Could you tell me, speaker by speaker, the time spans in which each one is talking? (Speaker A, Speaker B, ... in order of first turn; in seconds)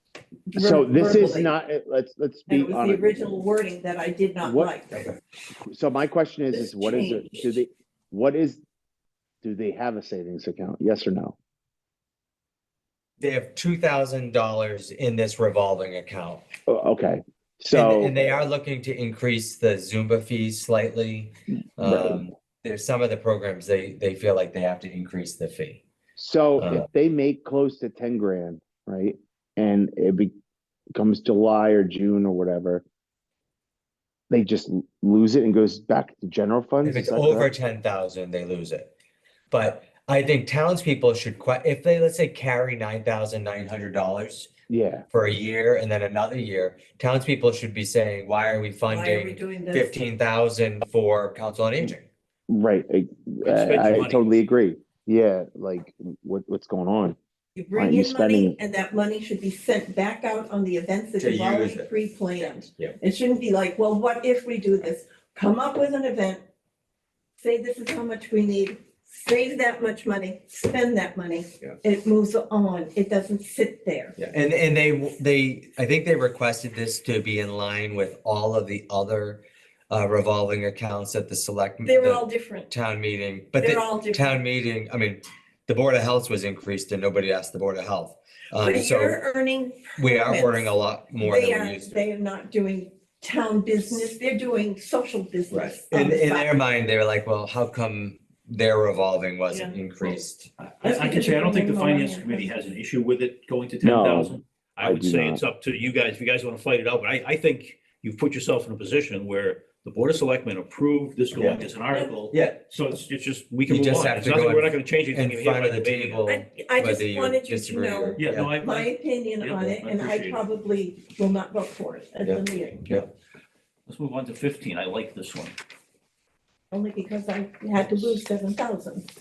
Speaker A: 0.5-1.5, 2.5-4.9, 6.5-7.6, 48.9-50.0, 57.5-66.4, 67.4-74.2, 81.8-82.7, 83.6-84.4, 88.6-96.5, 99.5-100.1, 100.8-102.5, 116.2-123.0, 126.7-129.1
Speaker B: 0.6-3.2, 4.4-4.7, 5.6-8.6, 9.4-11.3, 16.7-18.2, 21.8-22.2, 26.2-30.3, 30.9-32.8, 34.3-37.5, 44.7-45.0, 52.5-57.2, 57.7-58.5, 103.8-105.4
Speaker C: 13.2-16.4, 17.7-25.8, 26.6-26.9, 36.8-38.9, 39.5-44.5, 45.1-52.0, 61.2-61.9, 74.2-89.2, 90.0-92.0, 95.5-100.5, 111.3-111.6, 112.3-112.6, 113.7-118.5, 122.2-123.0
Speaker D: 53.4-54.3, 100.6-116.2, 118.2-120.4, 123.9-125.6